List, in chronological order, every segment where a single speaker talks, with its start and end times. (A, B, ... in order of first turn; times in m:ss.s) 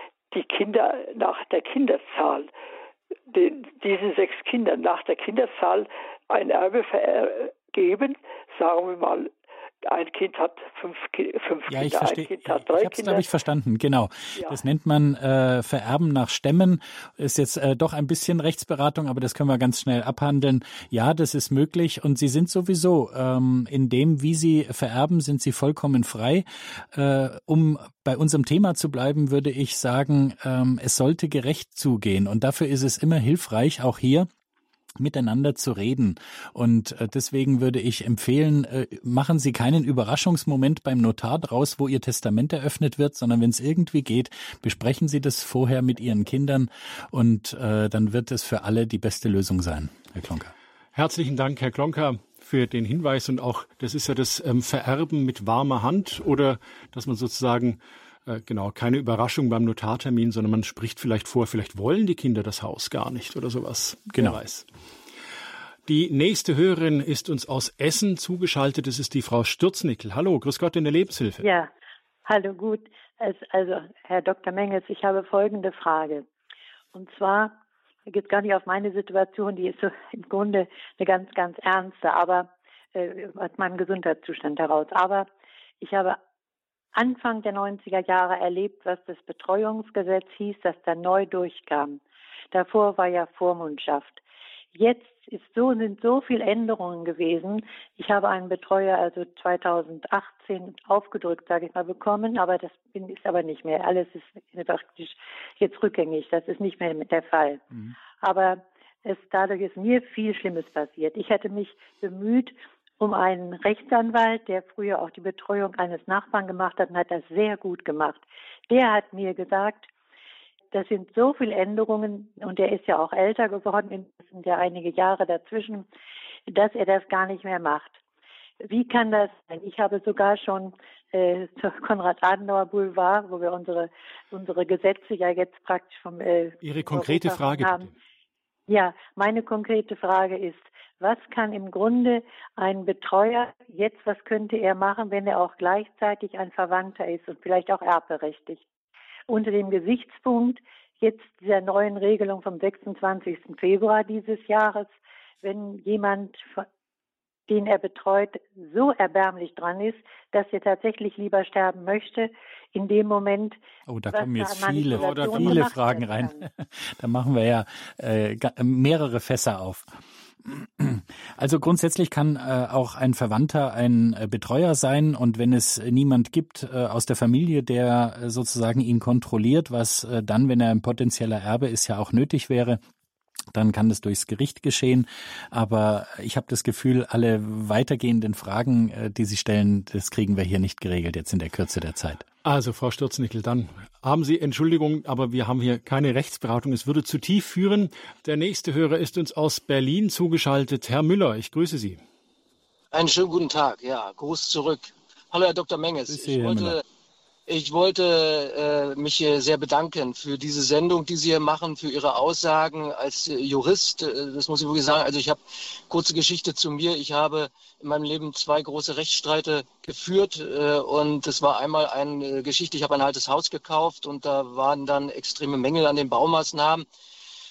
0:00.3-0:02.5 A
0:03.3-0:09.3 A
0:09.8-0:13.3 A
0:11.7-0:34.3 B
0:14.4-0:14.6 A
0:35.0-0:50.5 B
0:50.9-1:04.7 C
1:04.1-1:04.4 B
1:05.9-1:11.4 C
1:11.4-1:11.7 D
1:12.2-1:16.2 D
1:16.9-1:17.6 D
1:18.1-1:25.3 D
1:25.8-1:26.2 D
1:26.9-1:32.0 D
1:32.5-1:34.2 D
1:34.7-1:59.9 D
2:00.7-2:05.8 D
2:06.5-2:08.0 D
2:08.6-2:17.9 D
2:16.6-2:17.9 C
2:18.7-2:28.6 D
2:29.3-2:36.6 D
2:37.5-2:43.6 D
2:43.9-2:49.9 B
2:44.1-2:46.4 D
2:45.0-2:45.7 C
2:50.4-3:02.8 B
3:03.5-3:12.2 B
3:12.4-3:22.0 C
3:22.9-3:26.8 E
3:26.1-3:26.8 B
3:27.5-3:46.8 E